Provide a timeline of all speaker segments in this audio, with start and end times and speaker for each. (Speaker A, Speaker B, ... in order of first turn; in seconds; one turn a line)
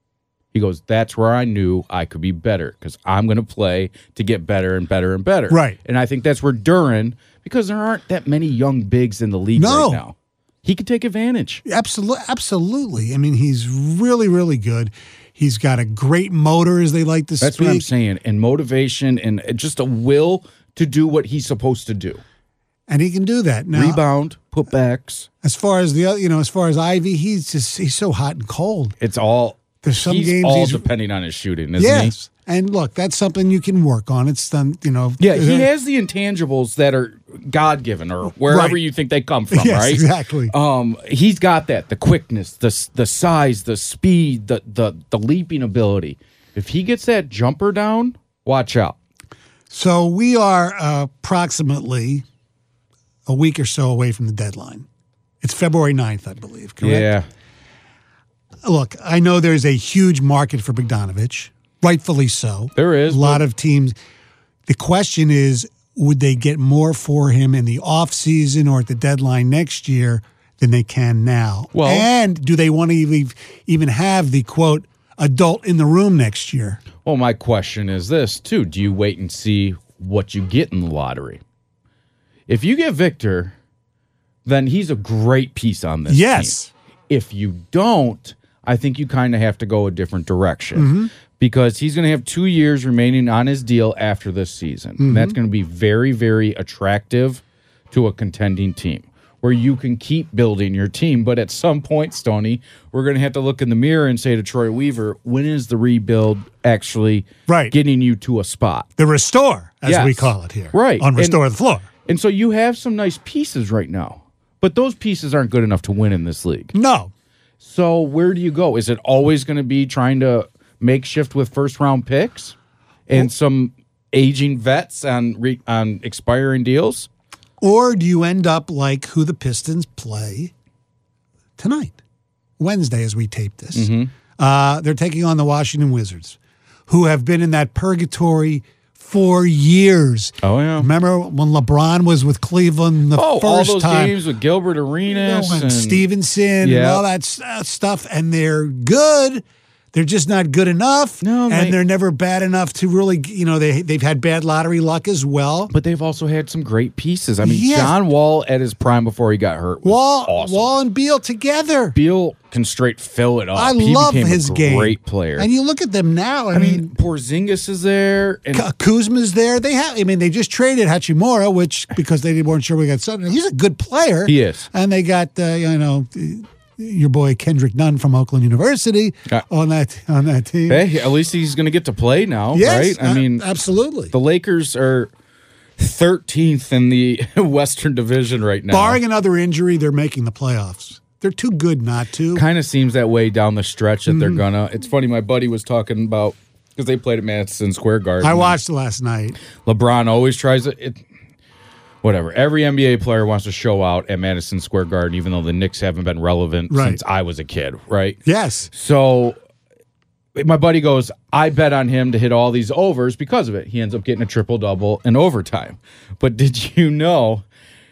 Speaker A: 0.5-11.6
Speaker B: 5.5-5.8
Speaker B: 9.6-10.0
Speaker B: 11.7-17.9
Speaker A: 17.4-22.2
Speaker B: 22.9-24.0
Speaker A: 23.7-25.3
Speaker B: 25.4-28.9
Speaker A: 29.0-32.1
Speaker B: 29.8-30.9
Speaker B: 31.8-35.7
Speaker A: 35.2-49.0
Speaker B: 38.5-38.8
Speaker B: 39.5-40.5
Speaker B: 49.7-52.2
Speaker B: 53.3-54.9
Speaker B: 55.4-57.1
Speaker A: 56.8-57.2
Speaker B: 58.6-63.9
Speaker A: 62.7-63.4
Speaker B: 64.7-76.8
Speaker A: 71.7-72.1
Speaker A: 77.0-81.4
Speaker A: 82.5-83.5
Speaker A: 84.4-86.6
Speaker B: 86.1-86.7
Speaker A: 87.1-108.9
Speaker B: 90.7-91.1
Speaker B: 95.0-95.4
Speaker B: 107.5-107.7
Speaker B: 109.0-111.9
Speaker A: 109.8-111.4
Speaker A: 112.0-116.7
Speaker B: 116.7-117.1
Speaker A: 117.6-122.5
Speaker A: 123.1-127.1
Speaker B: 127.6-130.5
Speaker B: 131.6-132.0
Speaker B: 132.6-144.2
Speaker A: 133.7-134.1
Speaker A: 140.4-140.9
Speaker A: 143.1-146.1
Speaker B: 145.1-155.7
Speaker A: 146.6-147.0
Speaker A: 151.2-151.8
Speaker A: 155.7-160.7
Speaker B: 157.4-158.0
Speaker B: 159.8-161.9
Speaker A: 161.9-165.5
Speaker B: 163.5-166.9
Speaker A: 166.5-168.7
Speaker B: 168.5-180.8
Speaker A: 174.2-174.7
Speaker A: 180.7-183.4
Speaker B: 182.5-184.1
Speaker A: 184.1-185.1
Speaker A: 185.8-189.0
Speaker B: 188.7-192.4
Speaker A: 192.3-198.6
Speaker B: 194.1-194.4
Speaker B: 198.2-199.4
Speaker A: 199.6-201.0
Speaker A: 202.0-208.2
Speaker B: 206.7-207.0
Speaker B: 208.2-208.7
Speaker A: 208.7-209.4
Speaker A: 210.3-217.4